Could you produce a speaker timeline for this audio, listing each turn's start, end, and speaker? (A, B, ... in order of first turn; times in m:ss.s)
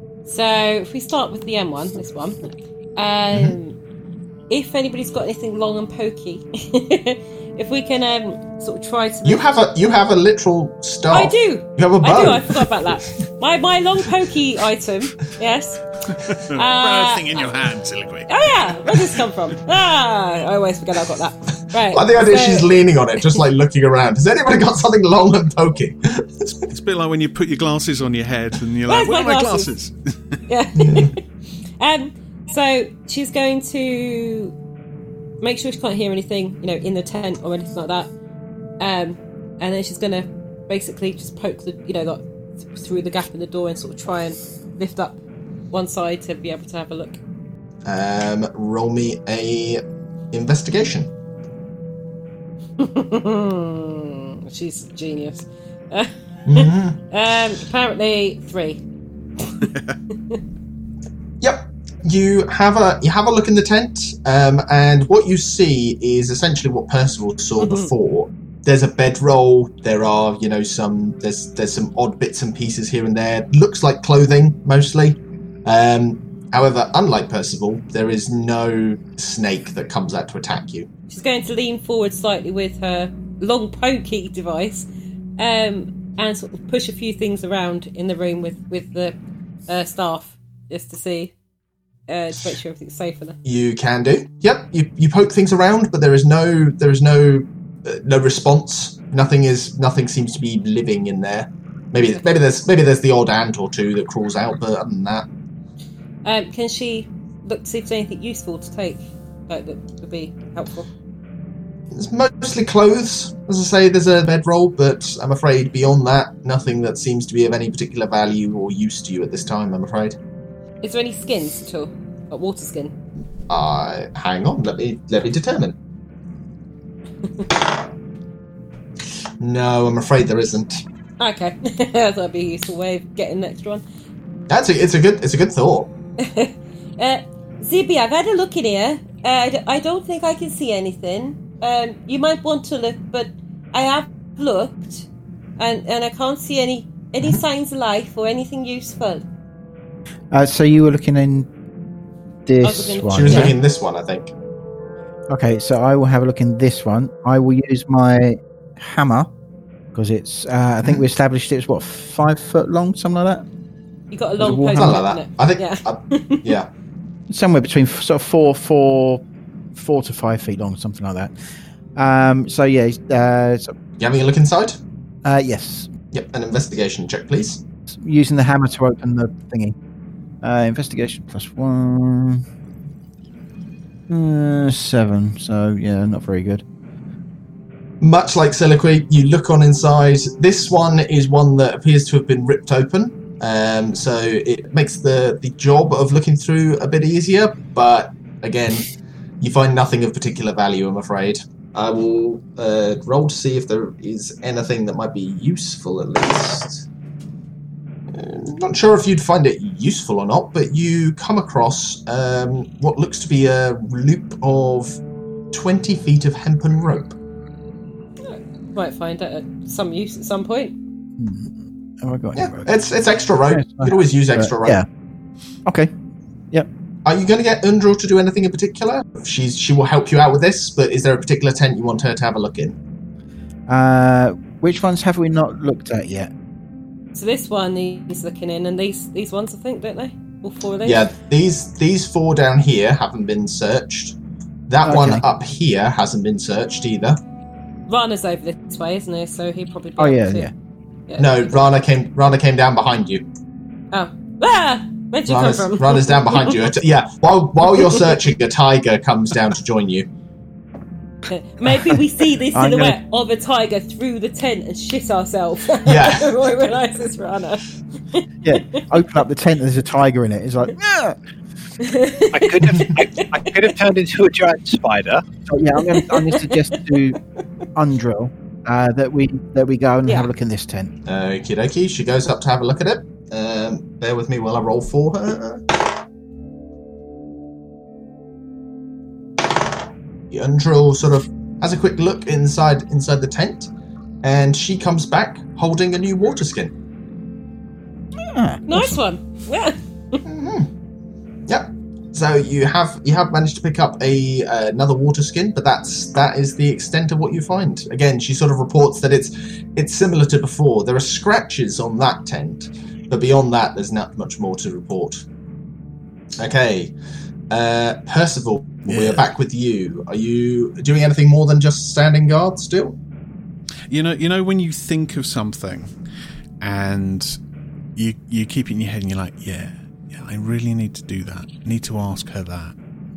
0:00.3-0:03.8 A
0:03.3-0:03.6 B
0:04.5-0:09.6 A
0:09.2-0:12.7 B
0:11.1-0:15.9 A
0:16.1-0:19.3 C
0:16.5-0:17.5 A
0:18.3-0:22.7 A
0:21.9-0:26.7 B
0:26.7-0:30.4 C
0:28.9-0:29.7 A
0:30.5-0:31.2 A
0:30.8-0:31.1 B
0:31.8-0:34.6 A
0:35.4-0:38.1 A
0:38.8-0:45.2 A
0:45.7-0:47.2 A
0:47.8-0:51.1 B
0:52.8-0:58.8 A
0:56.5-0:57.0 B
0:59.7-1:00.0 C
1:01.4-1:20.9 B
1:07.6-1:07.9 A
1:21.1-1:29.2 A
1:29.7-1:31.3 A
1:32.1-1:33.4 A
1:33.4-1:45.3 B
1:46.2-1:50.9 A
1:51.9-2:00.2 B
2:00.8-2:03.0 A
2:03.5-2:05.8 B
2:09.4-2:10.8 B
2:11.2-2:13.8 A
2:14.5-2:15.9 B
2:16.2-2:29.2 A
2:30.3-2:31.5 D
2:32.5-2:33.6 D
2:32.6-2:33.6 A
2:33.1-2:34.3 B
2:35.3-2:39.3 D
2:39.9-2:43.5 D
2:44.1-2:46.5 A
2:44.4-2:45.0 D
2:44.7-2:46.7 B
2:47.3-2:49.2 D
2:49.8-2:51.4 D
2:52.0-2:53.8 D
2:54.0-2:54.8 B
2:55.2-2:55.9 D
2:56.1-2:57.6 B
2:57.9-2:59.8 D
3:00.4-3:02.4 D
3:04.1-3:06.6 D
3:08.0-3:26.9 B
3:28.1-3:35.0 B
3:35.5-3:37.2 B
3:38.2-3:40.8 A
3:41.2-3:42.7 D
3:42.4-3:44.8 B
3:43.4-3:44.9 D
3:45.7-3:45.9 D
3:47.0-3:52.8 B
3:53.7-3:56.3 D
3:57.2-4:01.0 A
4:00.8-4:04.2 B
4:04.7-4:07.2 B
4:04.8-4:05.2 D
4:07.9-4:10.5 A
4:10.0-4:10.5 D
4:11.1-4:11.4 A
4:11.2-4:13.2 B
4:13.9-4:16.6 A
4:15.3-4:20.1 B
4:21.3-4:28.2 A
4:22.5-4:23.0 D
4:25.8-4:26.4 B
4:28.4-4:31.2 D
4:31.8-4:33.6 A
4:32.3-4:35.2 E
4:35.5-4:37.2 D
4:35.9-4:36.6 A
4:37.8-4:40.9 D
4:41.1-4:46.0 B
4:50.3-4:53.7 B
4:54.2-4:56.7 B
4:58.3-4:59.0 D
4:58.7-5:00.2 A
5:00.2-5:00.7 B
5:01.5-5:15.2 B
5:16.4-5:17.0 B
5:17.5-5:23.0 B
5:18.9-5:19.3 C
5:23.9-5:25.9 C
5:26.6-5:27.4 C
5:28.0-5:32.8 C